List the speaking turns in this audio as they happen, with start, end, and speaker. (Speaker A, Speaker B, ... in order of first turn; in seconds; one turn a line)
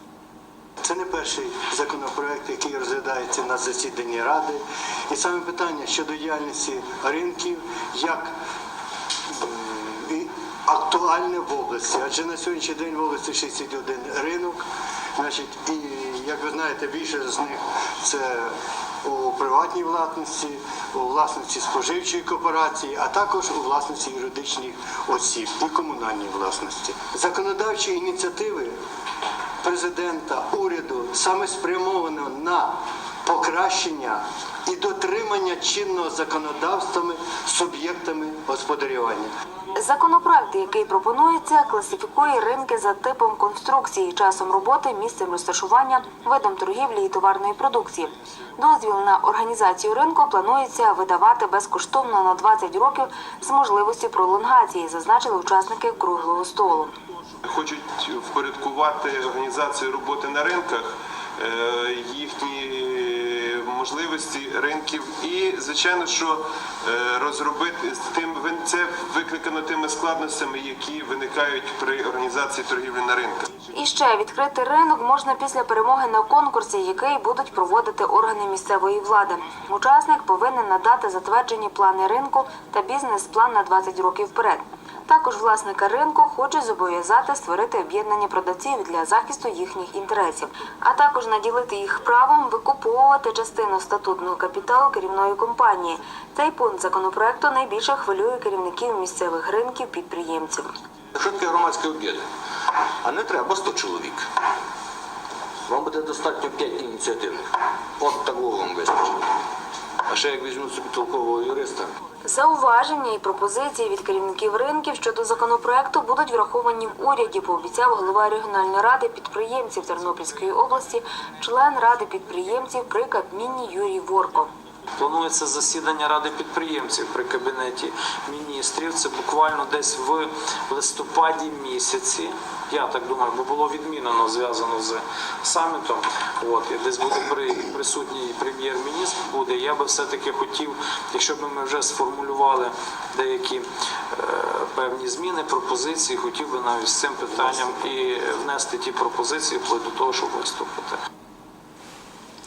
Speaker A: 0.8-8.3
Speaker A: 9.3-14.6
Speaker A: 15.2-28.8
Speaker A: 29.6-32.7
Speaker A: 33.2-39.3
Speaker B: 39.7-56.9
Speaker C: 57.5-73.5
Speaker B: 73.7-100.7
Speaker D: 101.2-102.2
Speaker D: 103.0-104.2
Speaker D: 105.7-107.4
Speaker D: 108.0-109.2
Speaker D: 110.1-111.9
Speaker B: 112.2-124.5
Speaker E: 125.0-151.0